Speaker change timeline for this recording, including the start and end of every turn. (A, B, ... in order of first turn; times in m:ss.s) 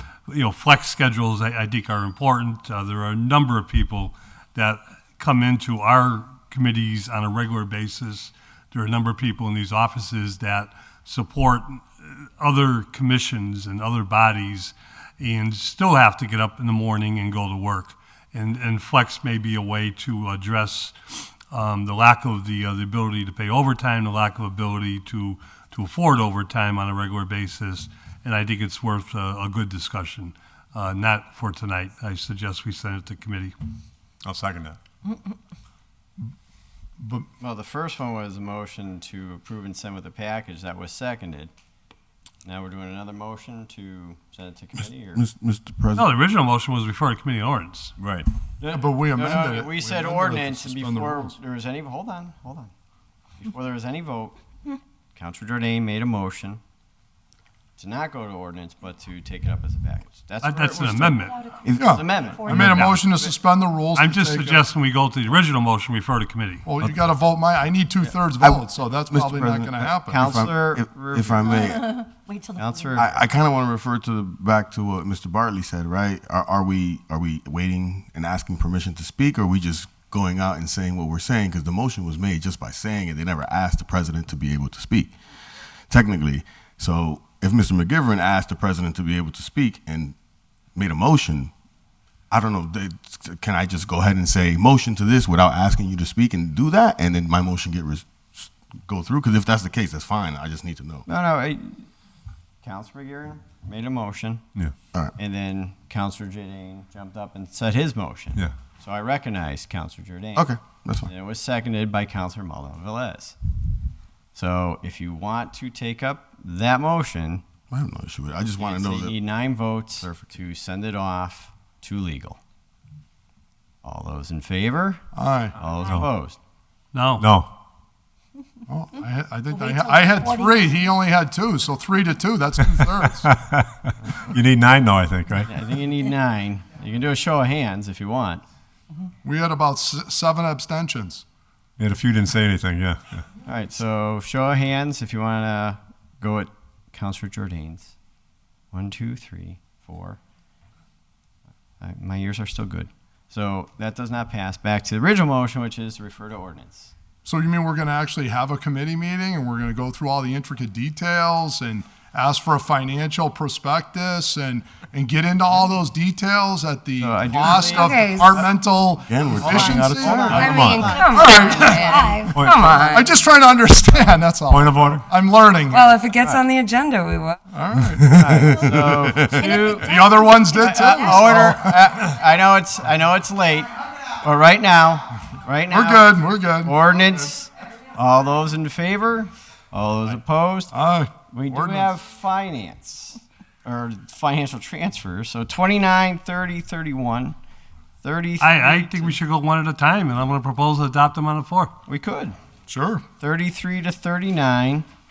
0:00.3-0:33.5 A
0:34.2-0:34.8 B
0:37.4-0:41.5 C
0:42.4-0:45.2 C
0:45.2-0:46.1 D
0:46.0-0:47.9 A
0:48.0-0:48.2 B
0:48.6-0:52.7 C
0:48.7-0:51.3 E
0:53.4-0:54.4 C
0:55.1-0:56.6 C
0:57.8-1:03.3 C
1:00.4-1:01.4 A
1:01.4-1:02.7 F
1:01.8-1:04.6 E
1:03.9-1:06.6 A
1:06.6-1:10.2 E
1:08.4-1:12.0 D
1:10.1-1:11.8 C
1:11.6-1:13.0 F
1:12.5-1:13.1 C
1:13.0-1:30.1 D
1:30.7-1:31.5 D
1:32.3-1:41.1 D
1:41.1-1:41.9 C
1:42.6-1:44.4 C
1:45.2-1:50.5 C
1:50.4-1:51.1 D
1:51.0-1:53.4 C
1:54.3-1:57.4 C
1:57.7-1:59.2 D
1:58.6-2:02.4 C
2:03.8-2:05.0 C
2:05.1-2:05.6 E
2:05.6-2:06.4 C
2:06.9-2:07.3 A
2:07.2-2:07.5 B
2:08.7-2:13.3 E
2:09.5-2:10.9 F
2:13.5-2:15.5 B
2:15.5-2:18.4 C
2:19.2-2:21.2 E
2:21.8-2:23.2 B
2:23.4-2:27.9 C
2:28.7-2:30.2 C
2:31.8-2:36.9 C
2:37.2-2:56.0 E
2:47.0-2:48.5 C
2:47.7-2:48.3 G
2:49.1-2:51.0 D
2:49.3-2:52.0 C
2:50.3-2:53.1 G
2:51.1-2:52.5 F
2:52.3-2:52.6 B
2:54.5-2:54.9 B
2:55.7-2:57.4 G
2:57.5-2:58.1 E
2:57.9-2:59.6 D
2:58.1-3:10.7 C
2:59.4-3:00.4 F
2:59.7-3:01.8 E
3:05.7-3:06.8 E
3:10.7-3:11.9 E
3:11.3-3:17.4 C
3:18.0-3:19.2 C
3:18.4-3:21.7 A
3:21.9-3:22.4 C
3:22.7-3:23.0 E
3:23.2-3:24.8 C